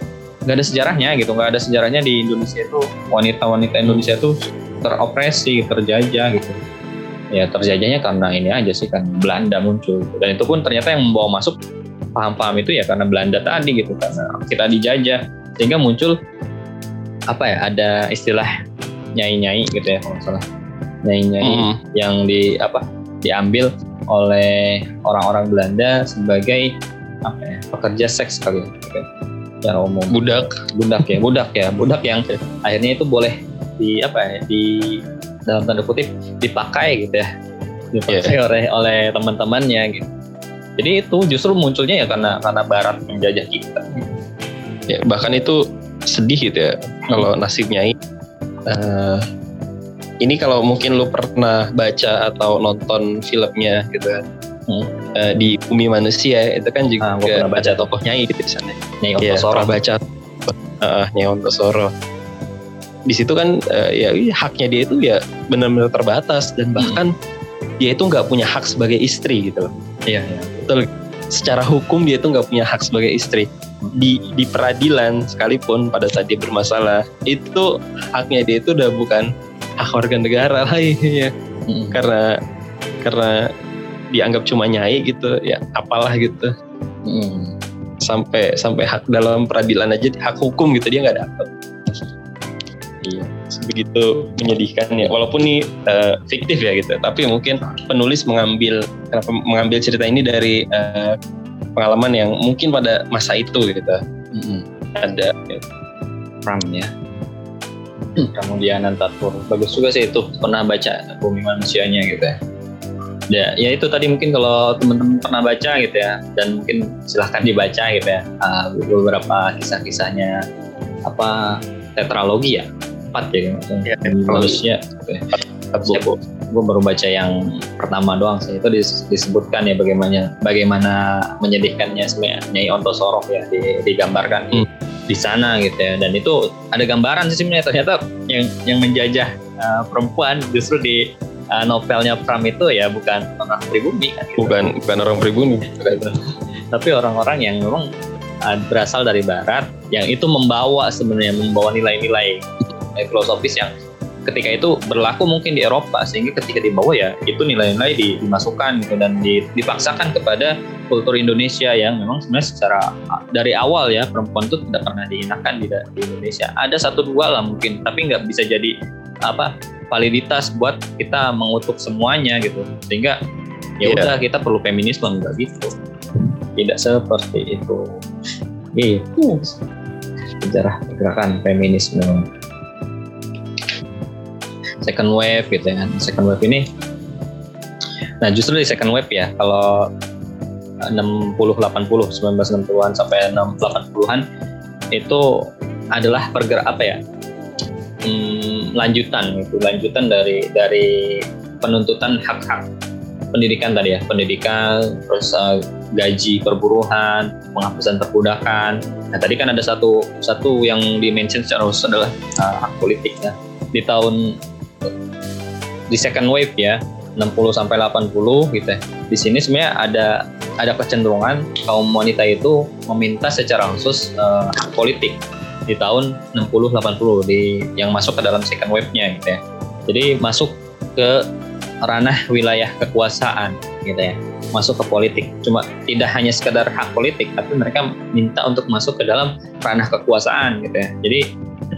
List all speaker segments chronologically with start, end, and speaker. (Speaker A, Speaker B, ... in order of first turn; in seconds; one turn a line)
Speaker A: 0.5-6.6
Speaker A: 7.3-11.6
Speaker A: 12.2-16.2
Speaker A: 17.3-18.5
Speaker A: 19.2-20.4
Speaker A: 21.1-26.7
Speaker B: 21.4-21.8
Speaker A: 27.3-29.1
Speaker A: 29.6-30.2
Speaker B: 30.1-30.5
Speaker A: 30.8-35.0
Speaker A: 35.5-37.3
Speaker A: 37.9-40.1
Speaker B: 38.1-38.3
Speaker A: 40.8-44.1
Speaker B: 44.9-47.9
Speaker B: 48.7-49.2
Speaker B: 50.2-54.2
Speaker B: 55.2-61.9
Speaker A: 57.0-57.9
Speaker A: 59.0-59.7
Speaker B: 63.1-67.1
Speaker A: 66.8-67.0
Speaker B: 67.8-69.7
Speaker A: 70.1-70.7
Speaker B: 70.7-79.3
Speaker B: 79.8-81.3
Speaker A: 81.7-82.0
Speaker B: 81.9-82.3
Speaker B: 83.0-83.4
Speaker B: 84.1-86.5
Speaker A: 87.1-87.5
Speaker B: 88.0-91.5
Speaker A: 93.0-93.3
Speaker B: 93.5-101.1
Speaker B: 101.8-104.0
Speaker A: 104.3-104.6
Speaker B: 105.0-105.6
Speaker A: 106.5-106.9
Speaker A: 108.2-112.3
Speaker A: 113.3-120.4
Speaker A: 121.1-125.3
Speaker B: 123.9-124.6
Speaker B: 125.7-126.0
Speaker A: 125.8-141.0
Speaker A: 141.6-144.6
Speaker B: 144.4-146.0
Speaker A: 145.8-146.1
Speaker A: 146.7-147.9
Speaker A: 148.5-153.7
Speaker A: 154.3-168.7
Speaker A: 169.3-173.2
Speaker A: 173.8-175.7
Speaker B: 173.9-174.1
Speaker A: 176.6-177.9
Speaker A: 178.8-179.6
Speaker A: 180.4-182.3
Speaker A: 184.8-186.7
Speaker A: 188.2-189.9
Speaker A: 190.9-194.2
Speaker A: 194.9-195.2
Speaker A: 195.9-197.0
Speaker A: 198.1-202.7
Speaker A: 203.3-214.2
Speaker A: 215.9-225.2
Speaker A: 225.7-231.2
Speaker A: 231.8-241.2